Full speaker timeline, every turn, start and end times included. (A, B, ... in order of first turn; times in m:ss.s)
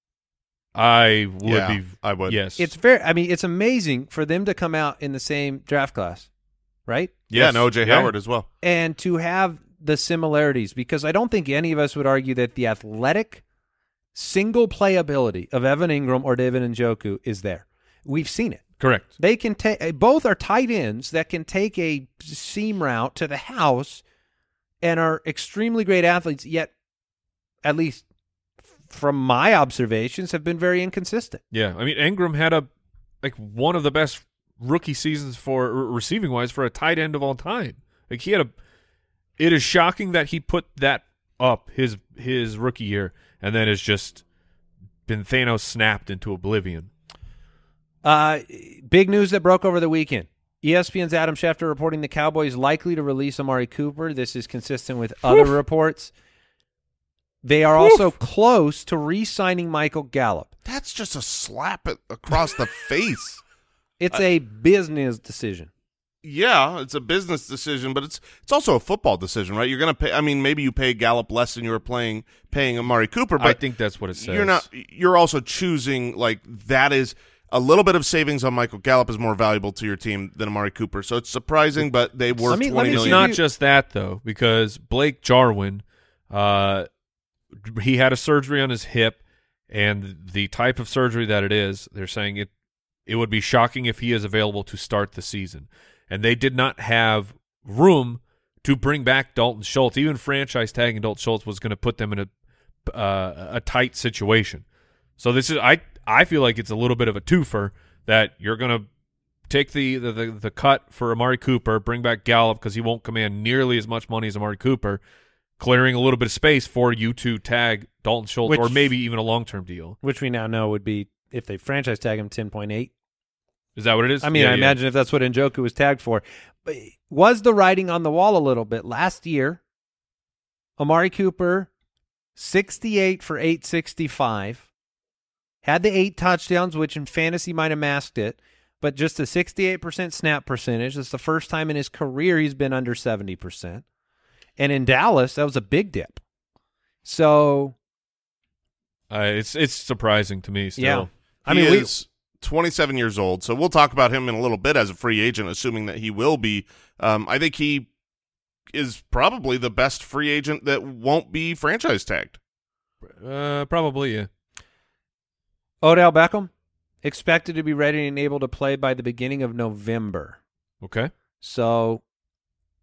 0:00.7-0:02.7 A
0:01.4-0:02.4 B
0:02.6-0:06.3 C
0:06.9-0:07.2 C
0:07.3-0:08.1 A
0:07.3-0:08.5 B
0:08.6-0:13.4 C
0:14.1-0:24.0 C
0:18.8-0:19.1 A
0:24.8-0:26.7 C
0:27.6-0:28.0 C
0:28.9-0:31.4 C
0:31.5-0:32.7 A
0:33.2-0:38.5 A
0:39.4-0:44.2 A
0:45.1-0:46.9 A
0:48.0-0:56.1 C
0:57.4-1:00.5 C
0:57.8-0:58.0 A
1:00.6-1:03.4 B
1:04.0-1:05.7 C
1:06.2-1:13.6 B
1:13.4-1:14.6 A
1:14.2-1:23.3 B
1:22.4-1:26.9 A
1:22.5-1:23.4 C
1:27.6-1:29.2 A
1:29.7-1:32.5 A
1:33.1-1:42.3 A
1:42.8-1:44.6 A
1:45.2-1:48.8 A
1:49.5-1:55.0 A
1:55.6-2:00.0 A
1:58.4-1:58.9 C
2:00.0-2:02.9 C
2:03.8-2:04.8 A
2:04.2-2:09.6 C
2:10.8-2:11.7 C
2:12.4-2:14.7 C
2:15.6-2:23.8 C
2:24.6-2:26.2 C
2:27.0-2:27.8 C
2:29.1-2:31.1 A
2:30.8-2:31.9 C
2:31.5-2:37.9 B
2:38.7-2:42.4 B
2:43.1-2:44.3 A
2:45.8-2:46.5 C
2:47.0-2:50.4 C
2:50.8-2:51.1 A
2:51.4-2:52.0 C